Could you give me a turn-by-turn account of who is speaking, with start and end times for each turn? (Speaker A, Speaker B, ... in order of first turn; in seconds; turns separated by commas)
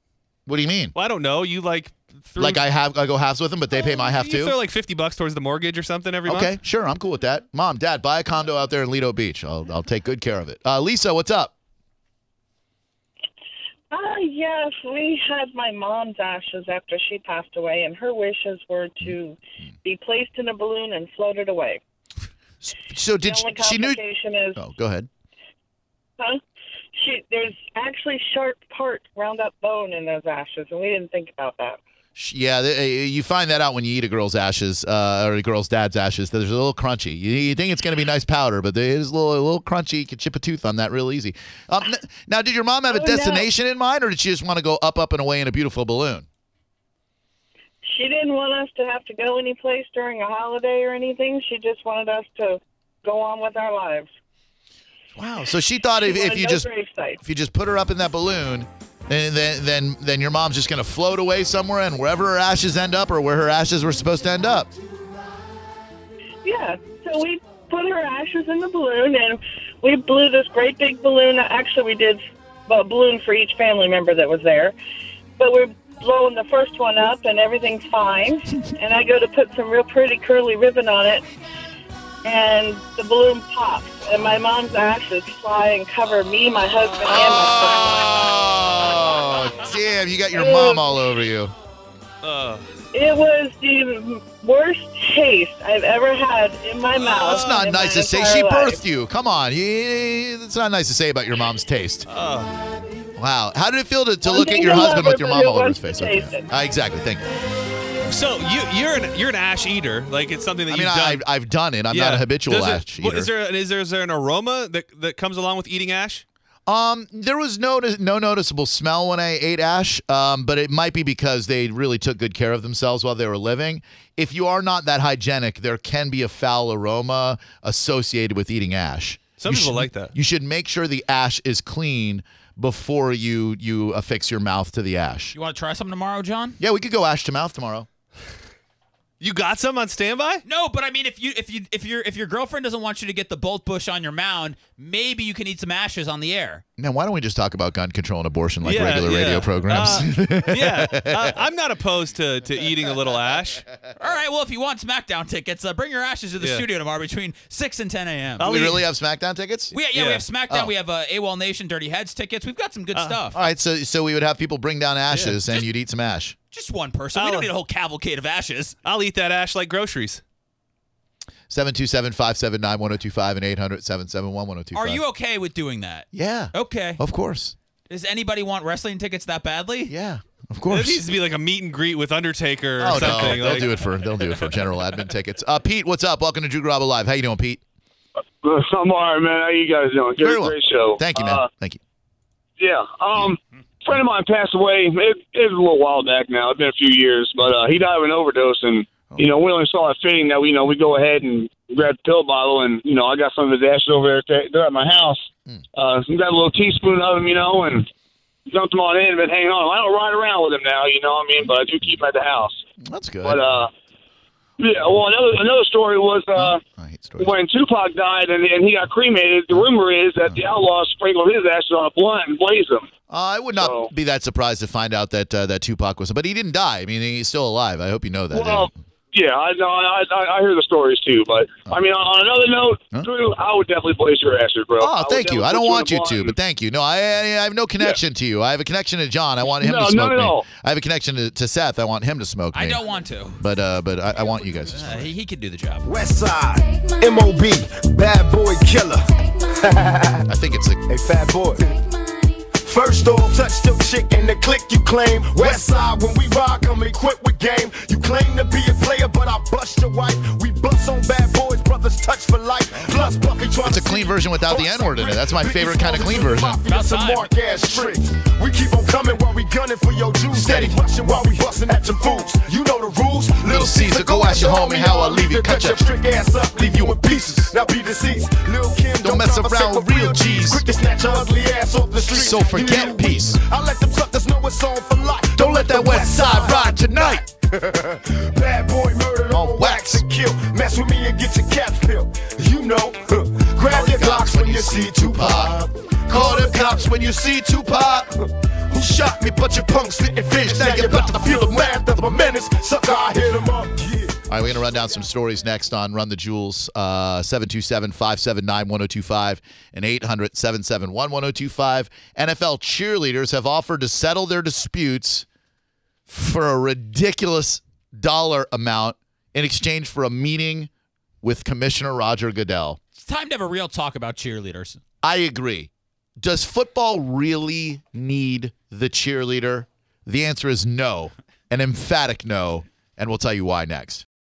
Speaker A: 0.5-0.9, Speaker B: 0.9-2.6, Speaker A: 2.4-4.6, Speaker B: 3.7-6.5, Speaker A: 6.3-11.5, Speaker C: 13.9-21.8, Speaker A: 22.6-24.0, Speaker C: 23.2-24.6, Speaker A: 24.6-25.1, Speaker C: 26.9-31.8, Speaker A: 32.2-46.3, Speaker C: 42.9-43.5, Speaker C: 47.9-54.1, Speaker A: 55.2-56.7, Speaker C: 56.0-57.2, Speaker A: 57.2-64.7, Speaker C: 66.4-74.8, Speaker C: 75.4-81.2, Speaker C: 82.2-88.3, Speaker A: 87.0-91.5, Speaker C: 90.3-91.0, Speaker B: 92.2-92.6, Speaker C: 92.9-98.8, Speaker B: 96.9-97.7, Speaker A: 97.2-102.1, Speaker B: 102.1-102.5, Speaker A: 103.2-107.2, Speaker C: 104.2-106.5, Speaker B: 108.1-111.2, Speaker A: 110.7-113.3, Speaker B: 111.9-116.2, Speaker A: 116.7-135.3, Speaker B: 129.4-130.1, Speaker D: 135.3-136.6, Speaker A: 136.6-137.9, Speaker B: 139.2-140.4, Speaker D: 140.4-146.6, Speaker A: 146.8-151.4, Speaker B: 148.7-153.7, Speaker D: 154.0-158.5, Speaker B: 156.4-156.7, Speaker B: 158.4-158.9, Speaker A: 158.4-159.7, Speaker D: 159.7-163.4, Speaker B: 159.8-160.2, Speaker A: 163.3-166.4, Speaker B: 165.1-165.4, Speaker D: 166.5-168.8, Speaker B: 167.2-167.5, Speaker B: 168.8-170.2, Speaker A: 171.5-175.0, Speaker D: 174.7-177.0, Speaker A: 176.1-177.6, Speaker D: 177.9-179.9, Speaker A: 179.9-181.0, Speaker B: 180.7-183.8, Speaker A: 182.8-187.6, Speaker E: 188.4-191.5, Speaker A: 190.2-191.8, Speaker E: 192.6-207.9, Speaker E: 208.5-212.6, Speaker A: 212.8-213.4, Speaker E: 213.2-213.7, Speaker E: 214.6-216.6, Speaker A: 216.3-217.3, Speaker E: 217.2-222.9, Speaker A: 223.1-228.7, Speaker E: 223.6-223.9, Speaker E: 228.3-236.3, Speaker A: 234.8-242.8, Speaker E: 239.6-240.5, Speaker D: 242.5-243.4, Speaker A: 243.4-245.1, Speaker D: 244.7-245.9, Speaker F: 245.8-250.3, Speaker A: 250.3-250.8, Speaker F: 250.9-251.8, Speaker F: 252.6-304.2, Speaker A: 263.6-266.6, Speaker D: 266.7-267.3, Speaker A: 270.3-270.8, Speaker A: 273.4-275.9, Speaker A: 276.6-277.5, Speaker A: 279.0-280.7, Speaker A: 282.1-283.4, Speaker A: 285.4-287.2, Speaker A: 289.3-290.1, Speaker A: 293.6-297.3, Speaker A: 300.4-302.1, Speaker A: 304.3-315.3, Speaker A: 316.1-320.7, Speaker A: 321.2-322.8, Speaker D: 322.9-324.8, Speaker A: 325.0-334.1